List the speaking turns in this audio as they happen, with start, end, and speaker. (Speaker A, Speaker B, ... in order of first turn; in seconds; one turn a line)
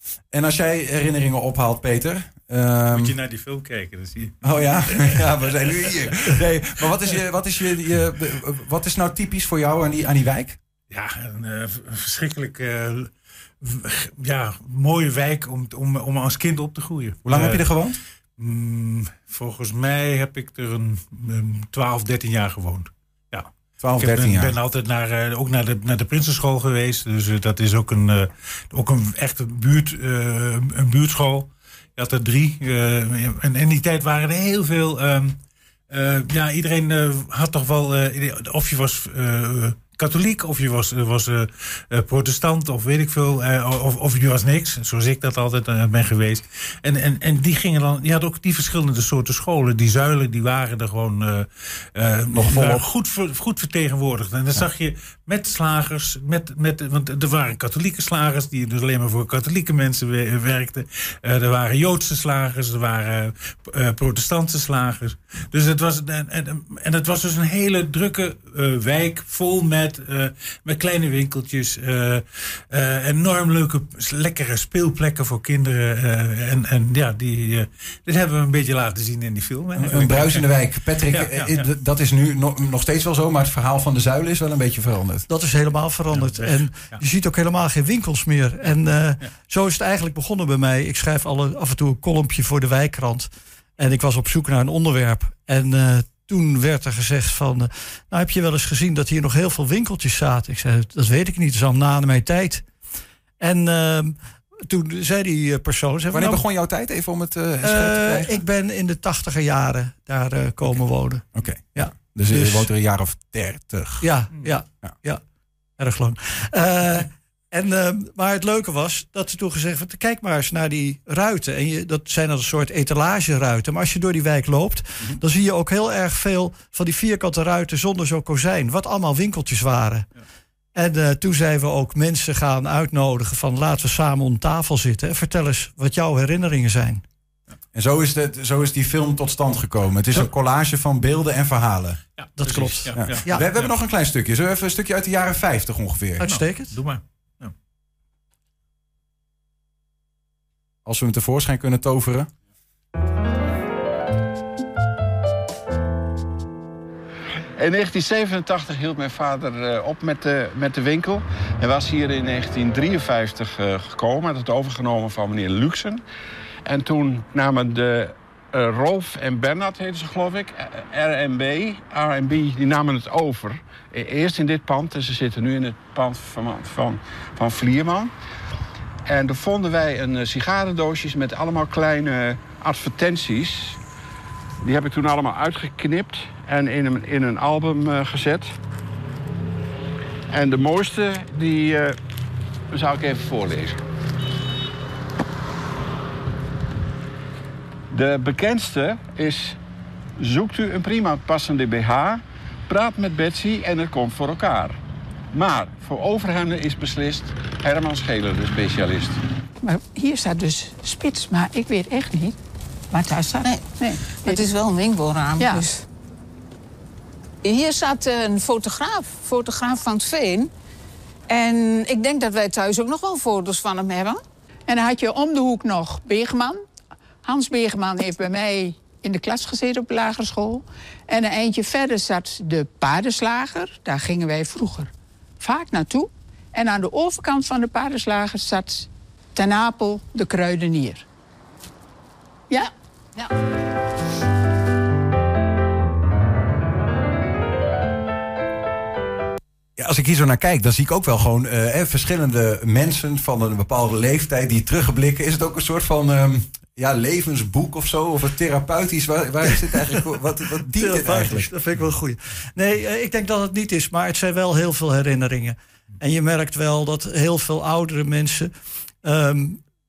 Speaker A: 0.3-3.1
Speaker B: 2.9-6.3
Speaker A: 4.4-10.6
Speaker B: 10.9-13.1
Speaker B: 13.6-17.7
Speaker A: 17.2-18.0
Speaker B: 18.4-35.4
Speaker A: 23.8-24.6
Speaker B: 35.9-80.5
Speaker A: 52.3-52.8
Speaker A: 79.8-85.3
Speaker B: 81.1-81.7
Speaker C: 85.3-102.7
Speaker B: 86.1-87.0
Speaker C: 103.4-106.4
Speaker A: 106.1-108.4
Speaker C: 107.6-112.7
Speaker A: 111.3-114.1
Speaker C: 114.0-115.2
Speaker C: 115.8-130.1
Speaker C: 130.8-137.0
Speaker A: 137.7-142.0
Speaker B: 142.2-143.7
Speaker C: 142.4-143.4
Speaker A: 142.9-146.2
Speaker C: 146.2-146.8
Speaker B: 146.2-147.5
Speaker A: 150.9-152.3
Speaker D: 157.6-166.0
Speaker D: 166.7-178.1
Speaker D: 179.1-183.8
Speaker D: 184.6-188.5
Speaker D: 190.3-192.0
Speaker D: 192.7-193.8
Speaker D: 197.9-199.6
Speaker D: 200.2-204.8
Speaker D: 205.3-209.2
Speaker E: 209.6-212.4
Speaker E: 212.9-214.5
Speaker F: 213.2-215.8
Speaker F: 217.4-220.5
Speaker F: 221.3-224.2
Speaker E: 224.7-226.6
Speaker E: 227.2-241.1
Speaker E: 242.5-243.3
Speaker A: 249.8-261.5
Speaker C: 260.7-268.5
Speaker C: 269.0-269.6